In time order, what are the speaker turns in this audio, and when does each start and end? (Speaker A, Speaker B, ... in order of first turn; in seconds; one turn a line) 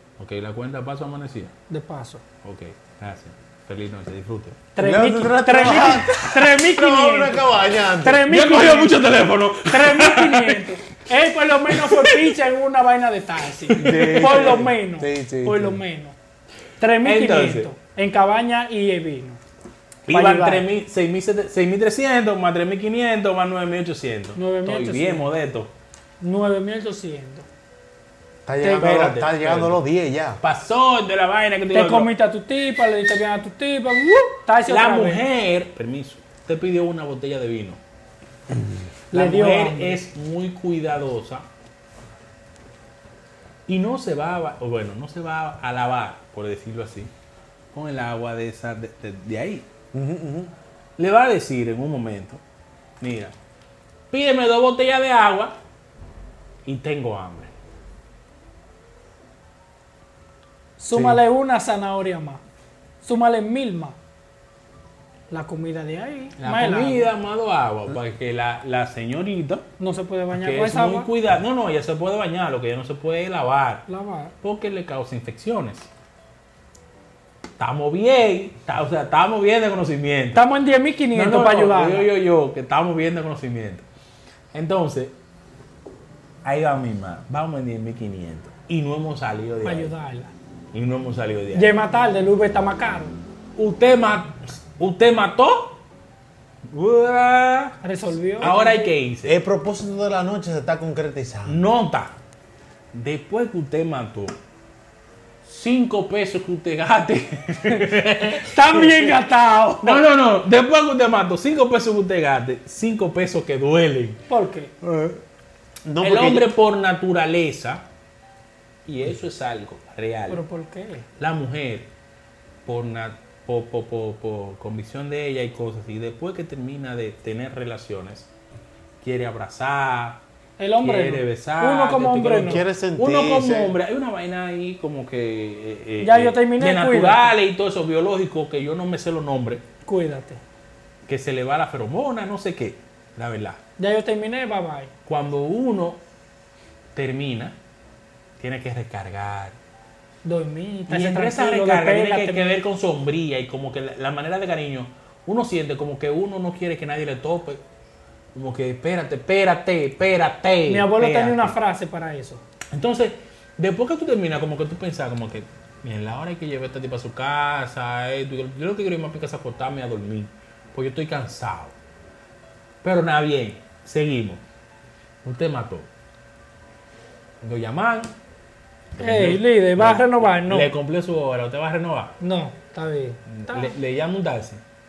Speaker A: 0.2-1.5
Speaker B: 1.7-2.2
Speaker A: 2.4-4.6
Speaker B: 4.7-7.4
Speaker C: 4.8-8.2
Speaker A: 6.1-6.4
Speaker B: 8.0-9.0
Speaker A: 8.3-10.6
Speaker B: 9.7-16.1
Speaker A: 11.7-12.3
Speaker A: 13.7-14.6
Speaker C: 13.8-15.8
Speaker B: 16.8-19.4
Speaker A: 17.0-17.7
Speaker A: 20.1-25.7
Speaker B: 20.1-20.6
Speaker B: 24.3-25.3
Speaker B: 26.2-27.5
Speaker C: 28.4-30.4
Speaker B: 28.6-29.1
Speaker A: 28.8-29.8
Speaker A: 30.4-32.1
Speaker B: 31.7-35.2
Speaker A: 34.7-37.8
Speaker B: 39.1-40.0
Speaker A: 39.1-41.4
Speaker A: 43.7-47.1
Speaker A: 47.7-49.6
Speaker C: 49.9-50.5
Speaker A: 51.0-52.4
Speaker A: 53.0-53.3
Speaker A: 54.1-55.5
Speaker A: 56.6-57.5
Speaker B: 60.8-62.4
Speaker C: 60.9-61.2
Speaker B: 63.0-64.0
Speaker B: 65.3-67.1
Speaker A: 66.4-69.7
Speaker B: 69.8-71.1
Speaker A: 70.3-73.8
Speaker B: 73.9-74.3
Speaker A: 74.4-75.9
Speaker A: 77.6-80.4
Speaker B: 80.3-82.1
Speaker A: 81.1-83.8
Speaker A: 84.5-85.1
Speaker A: 86.4-89.9
Speaker B: 89.6-90.3
Speaker A: 90.7-91.7
Speaker B: 91.5-93.1
Speaker A: 93.6-95.8
Speaker A: 96.7-97.8
Speaker B: 97.8-98.9
Speaker A: 98.4-99.3
Speaker C: 99.2-101.6
Speaker A: 101.5-102.1
Speaker A: 102.9-104.3
Speaker A: 105.5-109.1
Speaker B: 108.2-110.0
Speaker A: 109.8-114.2
Speaker B: 114.3-114.7
Speaker C: 114.8-115.2
Speaker C: 115.8-116.5
Speaker A: 116.0-117.8
Speaker A: 118.8-120.4
Speaker B: 120.3-121.0
Speaker A: 121.2-121.9
Speaker A: 122.7-128.3
Speaker A: 129.0-130.2
Speaker B: 130.6-132.6
Speaker A: 130.8-139.6
Speaker C: 132.4-133.8
Speaker B: 136.0-137.3
Speaker B: 139.8-140.4
Speaker A: 141.1-143.6
Speaker B: 143.8-144.9
Speaker A: 145.1-146.0
Speaker A: 146.9-147.6
Speaker A: 148.4-149.6
Speaker B: 150.2-152.6
Speaker A: 150.9-157.6
Speaker A: 158.3-161.5
Speaker B: 160.7-162.4
Speaker A: 162.7-171.7
Speaker A: 172.8-174.4
Speaker A: 175.2-175.9
Speaker A: 177.4-178.1
Speaker A: 179.0-182.1
Speaker B: 179.0-180.7
Speaker B: 182.2-183.7
Speaker A: 183.3-184.6